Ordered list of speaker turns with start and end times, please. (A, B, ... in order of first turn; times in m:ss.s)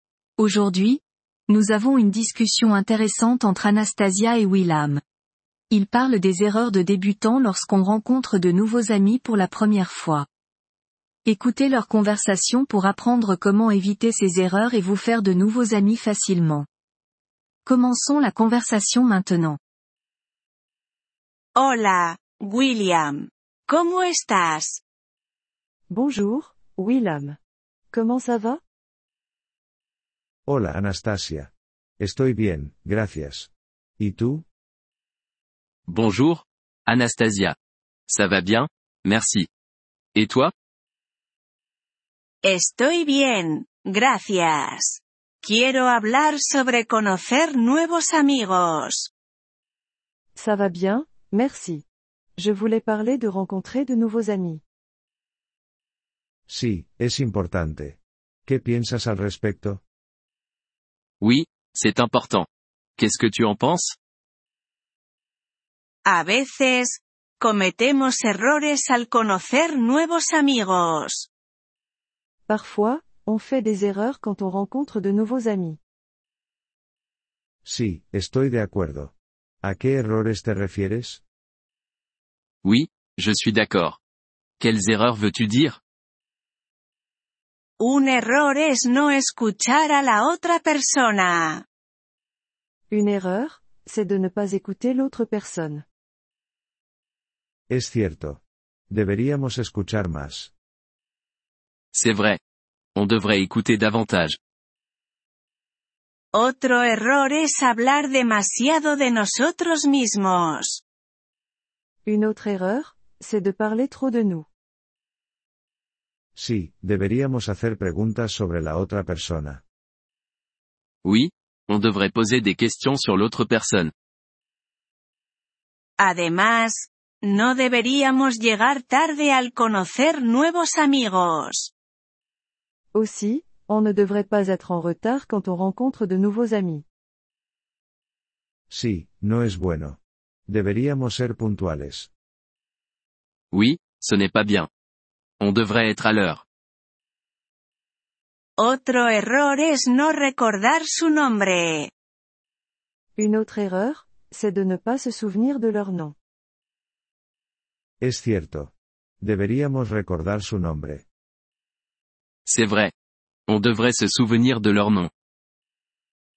0:00.4-0:05.0 A
0:05.7-0:10.2 A
0:11.2-0:16.7 A
0:17.6-0:19.6 A
0:21.6-0:24.8 B
0:25.9-0:27.4 C
0:27.9-0:28.6 C
0:30.4-0:34.4 D
0:35.9-0:37.6 E
0:38.1-0:39.5 E
0:40.1-0:40.5 E
0:42.4-0:49.1 B
0:50.4-0:51.8 C
0:52.4-0:54.6 C
0:56.5-0:59.8 D
1:01.2-1:04.0 E
1:06.0-1:11.3 B
1:12.5-1:15.8 C
1:17.6-1:21.2 D
1:22.6-1:24.0 E
1:24.6-1:25.8 E
1:27.8-1:31.6 B
1:32.9-1:35.8 C
1:37.7-1:40.5 D
1:41.9-1:42.4 E
1:42.9-1:44.4 E
1:46.3-1:50.8 B
1:52.0-1:54.5 C
1:56.3-1:59.6 D
2:01.0-2:03.9 E
2:06.0-2:11.7 B
2:12.9-2:16.8 C
2:18.7-2:22.1 D
2:23.5-2:24.7 E
2:25.4-2:26.4 E
2:28.6-2:31.9 B
2:33.2-2:36.1 C
2:38.0-2:41.0 D
2:42.4-2:42.9 E
2:43.5-2:45.1 E